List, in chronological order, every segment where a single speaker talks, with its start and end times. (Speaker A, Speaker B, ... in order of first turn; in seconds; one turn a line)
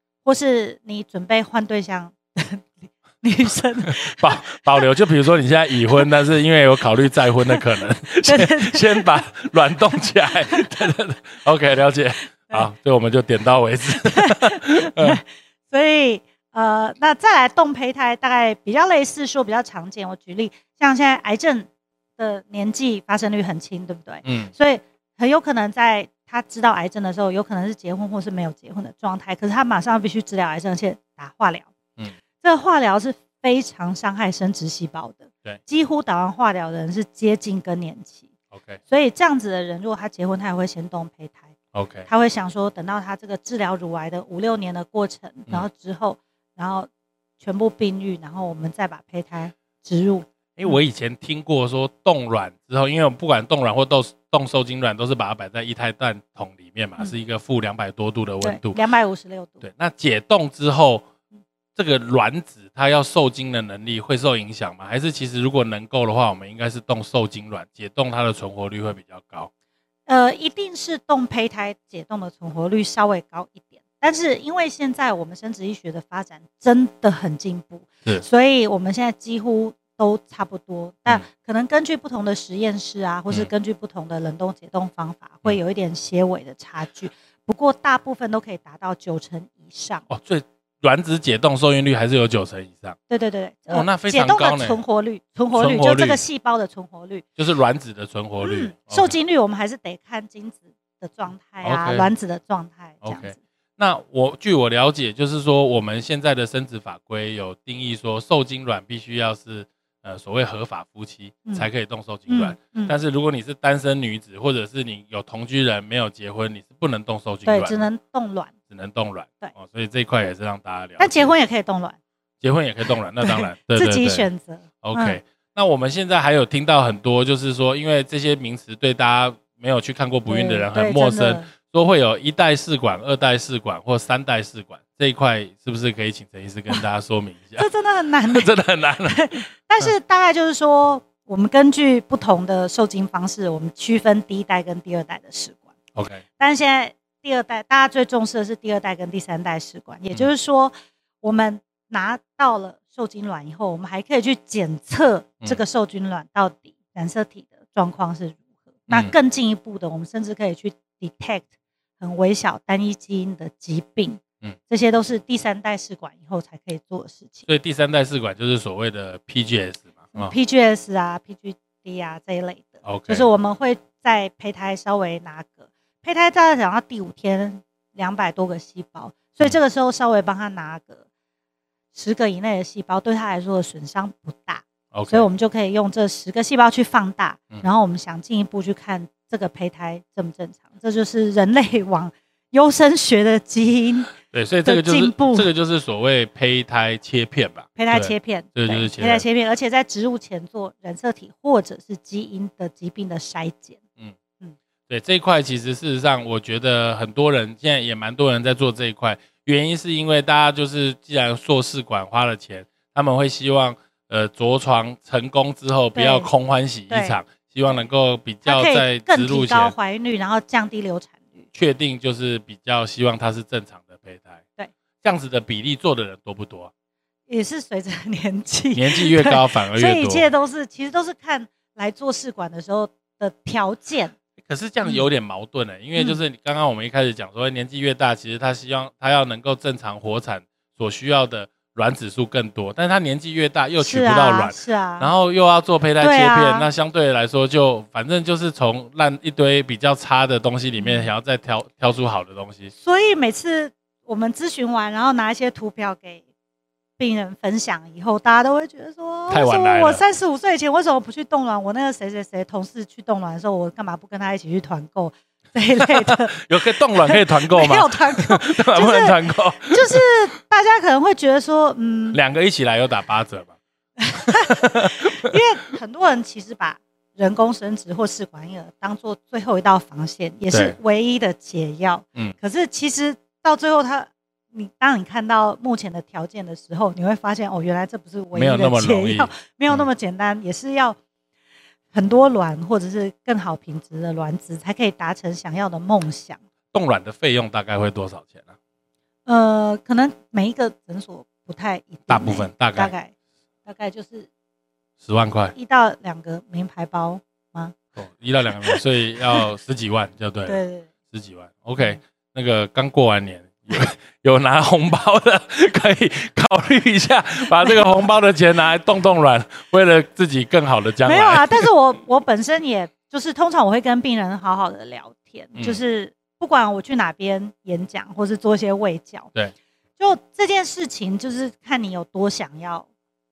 Speaker A: 0.2-4.8
Speaker B: 3.8-15.2
Speaker A: 8.2-9.2
Speaker A: 10.4-10.7
Speaker A: 14.0-31.7
Speaker B: 24.2-24.5
Speaker A: 32.4-38.2
Speaker B: 38.5-38.8
Speaker A: 38.9-41.5
Speaker B: 41.7-42.1
Speaker A: 42.1-50.8
Speaker B: 50.6-58.8
Speaker A: 58.4-59.6
Speaker B: 59.6-61.0
Speaker B: 61.8-69.5
Speaker A: 70.1-90.0
Speaker B: 90.1-93.0
Speaker A: 93.1-97.2
Speaker B: 93.7-94.8
Speaker B: 95.5-96.2
Speaker B: 97.4-99.1
Speaker A: 98.4-103.3
Speaker B: 101.6-102.1
Speaker B: 103.0-117.8
Speaker A: 112.3-112.9
Speaker A: 117.5-118.5
Speaker B: 118.7-121.3
Speaker A: 121.0-122.0
Speaker B: 122.4-124.3
Speaker A: 123.2-125.2
Speaker B: 124.8-137.7
Speaker A: 130.3-131.5
Speaker A: 137.6-138.5
Speaker B: 138.3-139.9
Speaker A: 139.0-145.6
Speaker B: 145.9-146.2
Speaker A: 146.4-161.5
Speaker B: 158.9-159.1
Speaker A: 162.0-167.5
Speaker B: 167.5-170.3
Speaker A: 170.1-181.0
Speaker B: 172.8-173.3
Speaker A: 181.9-195.5
Speaker B: 184.9-185.3
Speaker B: 194.2-199.2
Speaker A: 197.8-203.8
Speaker B: 204.9-219.7
Speaker A: 215.9-216.3
Speaker A: 216.9-217.2
Speaker A: 218.4-221.4
Speaker B: 221.5-224.4
Speaker B: 225.0-226.7
Speaker A: 227.3-234.1
Speaker B: 228.7-230.3
Speaker B: 234.4-252.7
Speaker A: 243.8-245.1
Speaker A: 246.0-246.7
Speaker A: 250.8-251.1
Speaker A: 252.7-256.2
Speaker A: 257.0-266.4
Speaker B: 259.3-260.0
Speaker B: 265.8-270.0
Speaker A: 266.9-272.2
Speaker B: 272.1-273.5
Speaker A: 274.0-291.0
Speaker B: 274.1-275.3
Speaker B: 280.5-280.8
Speaker B: 288.3-289.9
Speaker A: 291.9-296.4
Speaker B: 296.7-298.5
Speaker A: 299.2-303.1
Speaker B: 302.1-302.9
Speaker A: 303.6-304.3
Speaker B: 305.0-305.5
Speaker A: 305.5-307.7
Speaker B: 307.9-310.6
Speaker A: 310.4-310.9
Speaker B: 311.1-321.7
Speaker A: 321.0-329.3
Speaker B: 325.5-325.8
Speaker A: 330.0-332.9